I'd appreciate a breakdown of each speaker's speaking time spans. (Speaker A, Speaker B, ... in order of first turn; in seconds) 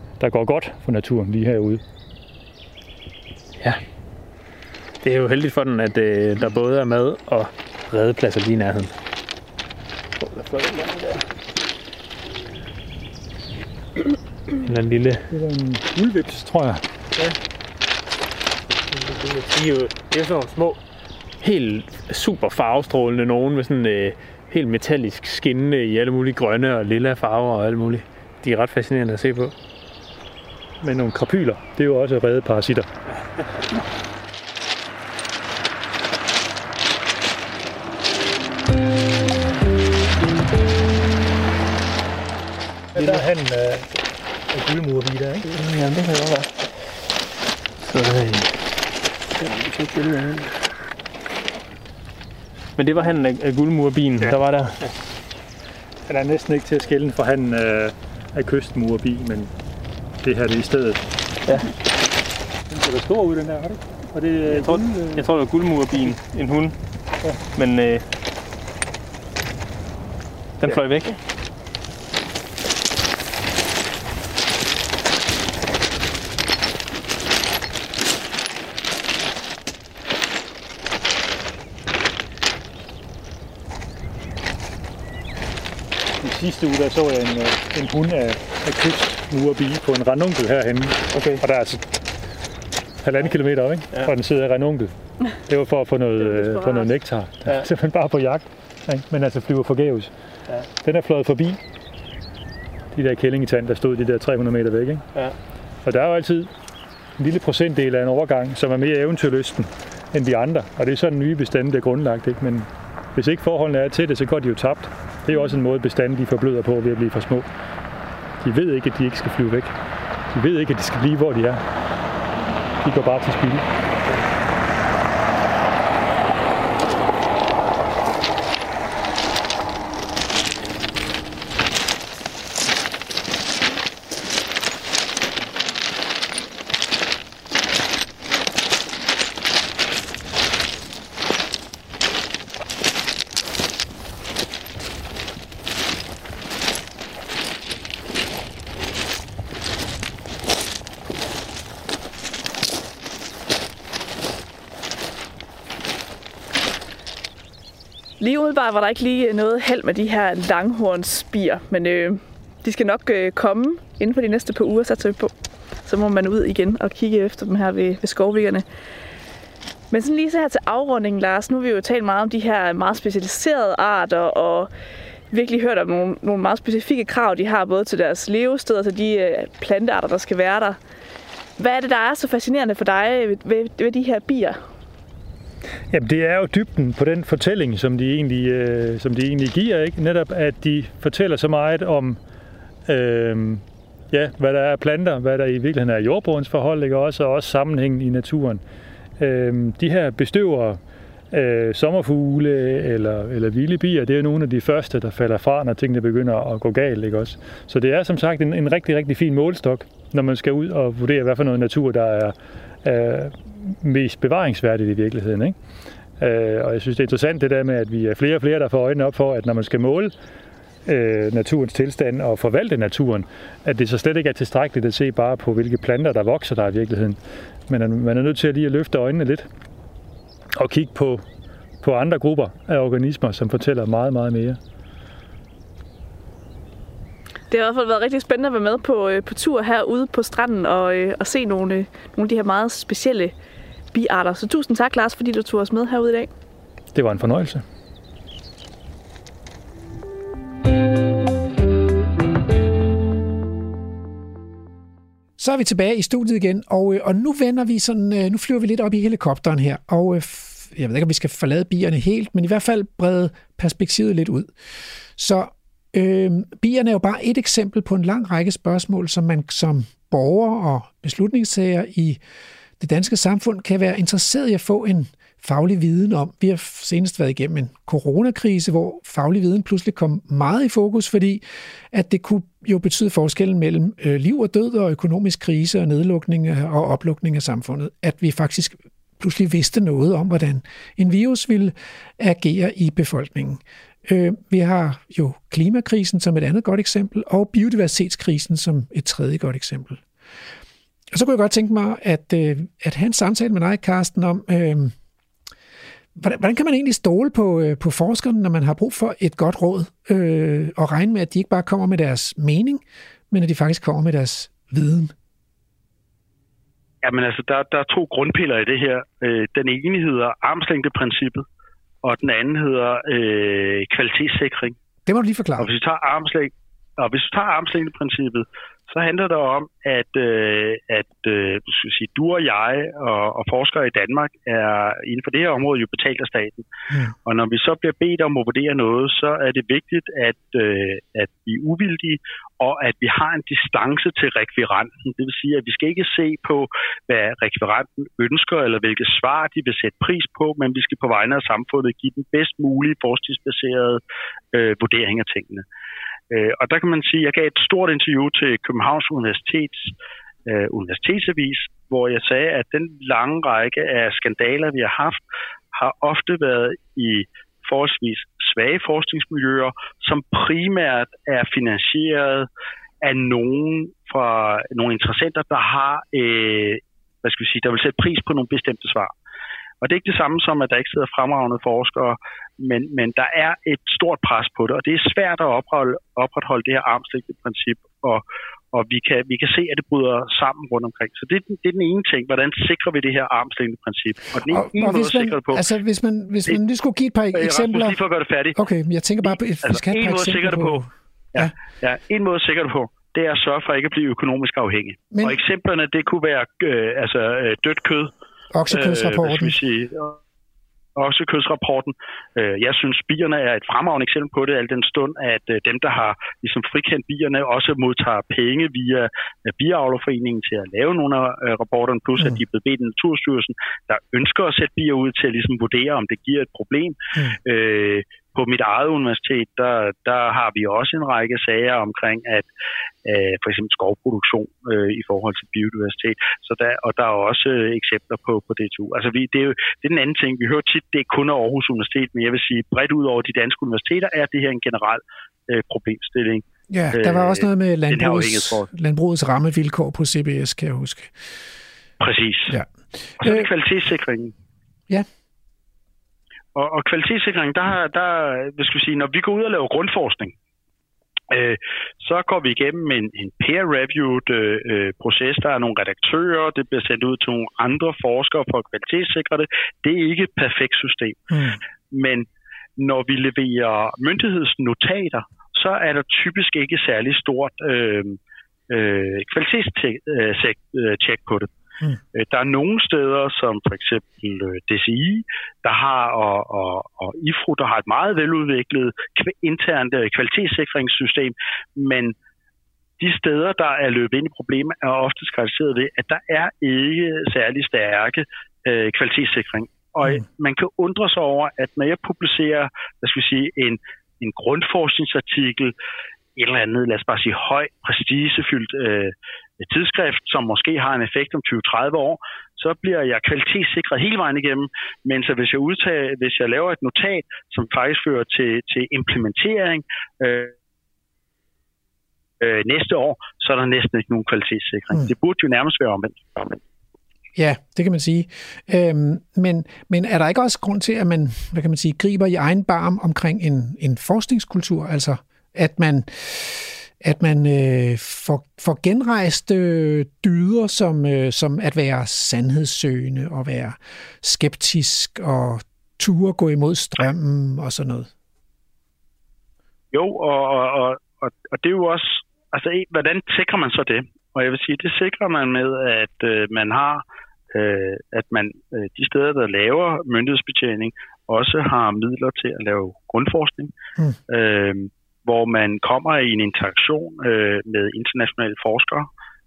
Speaker A: 0.2-1.8, 15.3-16.8, 30.8-32.9, 42.9-43.9, 44.5-45.5, 56.1-59.5, 60.2-61.1, 62.7-65.3, 86.2-91.8, 93.0-94.9, 95.5-100.1, 100.8-101.6, 102.9-105.0, 105.8-106.5, 107.2-117.5, 118.4-119.7, 120.3-121.6, 122.8-123.7, 185.9-192.2, 192.9-198.6, 199.2-200.8, 201.3-215.6, 216.2-220.1, 220.9-229.5, 230.6-231.2, 231.8-234.6, 246.9-247.6
Speaker B: 5.0-8.9, 10.2-11.3, 14.6-15.3, 18.9-20.8, 21.4-29.5, 45.5-47.0, 47.8-48.7, 49.4-50.6, 52.8-54.9, 61.5-61.7, 64.5-66.8, 67.5-68.0, 70.6-71.2, 91.1-91.4
Speaker C: 158.2-165.3, 165.8-168.7, 169.9-174.7, 175.3-180.8, 181.6-184.6, 237.5-243.3, 243.9-246.3
Speaker D: 255.4-264.5, 265.2-272.2, 272.8-300.0, 301.1-304.9, 306.1-315.1, 325.1-325.7, 336.9-337.1, 394.5-398.0, 398.5-401.5, 405.1-405.4, 408.5-409.6, 446.7-451.1, 453.2-453.5, 471.3-471.6, 527.4-548.1
Speaker E: 317.0-321.4, 322.0-324.8, 325.6-336.7, 337.3-354.0, 354.5-355.6, 356.3-359.9, 360.5-365.2, 365.7-372.5, 373.0-379.1, 379.8-395.7, 397.3-398.6, 399.6-408.1, 408.7-410.2, 411.0-432.5, 433.1-448.7, 452.0-452.6, 453.2-454.3, 456.6-460.3, 461.3-471.4, 471.9-478.2, 478.7-481.5, 482.1-492.1, 493.0-505.7, 506.4-520.5, 522.4-526.6, 549.9-563.7, 564.3-569.1